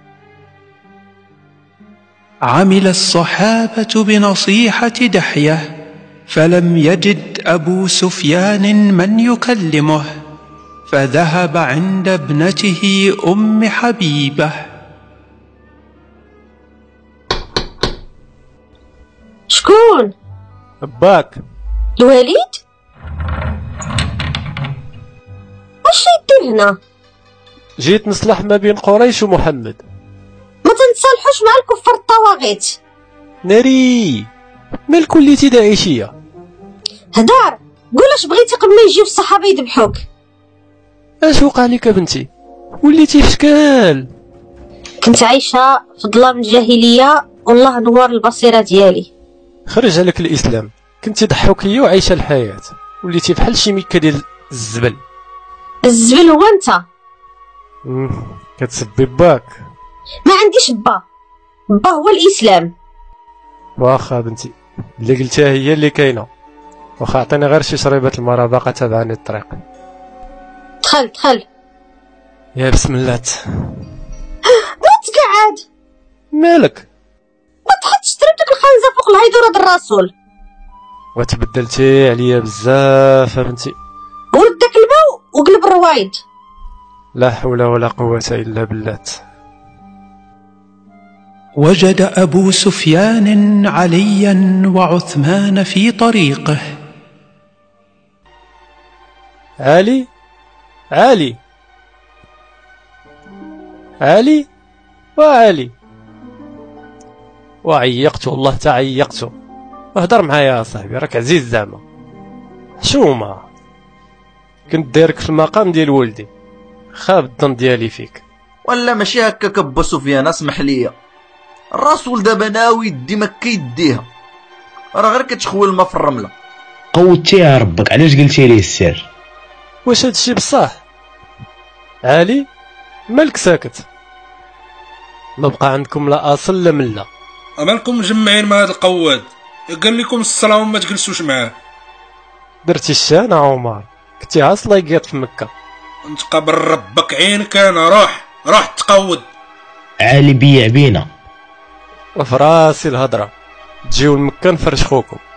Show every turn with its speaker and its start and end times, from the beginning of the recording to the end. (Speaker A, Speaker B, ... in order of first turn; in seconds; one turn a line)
Speaker A: 2.5-5.7
Speaker A: 6.3-10.1
Speaker A: 10.9-14.6
Speaker B: 19.5-20.1
Speaker C: 20.8-21.4
Speaker B: 22.0-22.6
Speaker B: 25.8-26.8
Speaker C: 27.8-29.8
Speaker B: 30.6-32.8
Speaker C: 33.4-34.3
Speaker C: 34.9-36.1
Speaker B: 37.1-40.0
Speaker C: 41.2-42.3
Speaker C: 42.8-44.1
Speaker B: 45.0-49.1
Speaker C: 49.7-55.0
Speaker B: 55.9-56.8
Speaker C: 57.9-59.6
Speaker B: 60.3-61.0
Speaker B: 61.7-62.7
Speaker C: 63.8-66.3
Speaker C: 67.0-69.6
Speaker B: 70.8-71.4
Speaker C: 72.6-73.8
Speaker B: 74.8-75.6
Speaker C: 76.3-76.8
Speaker B: 77.7-80.1
Speaker C: 81.2-83.7
Speaker B: 84.3-86.2
Speaker C: 87.2-89.2
Speaker A: 91.6-96.6
Speaker C: 99.6-100.1
Speaker C: 100.9-101.4
Speaker C: 104.0-104.5
Speaker C: 105.2-105.7
Speaker C: 107.6-109.3
Speaker C: 110.0-111.8
Speaker C: 112.8-113.5
Speaker C: 114.7-116.3
Speaker C: 117.0-118.2
Speaker D: 118.7-120.9
Speaker D: 121.7-124.1
Speaker D: 125.0-126.3
Speaker E: 126.9-129.1
Speaker C: 129.8-130.8
Speaker C: 132.0-132.5
Speaker C: 133.1-133.8
Speaker C: 135.4-137.1
Speaker F: 137.6-141.6
Speaker C: 142.7-145.5
Speaker F: 146.1-149.3
Speaker E: 150.0-151.1
Speaker C: 152.2-153.3
Speaker C: 153.9-155.2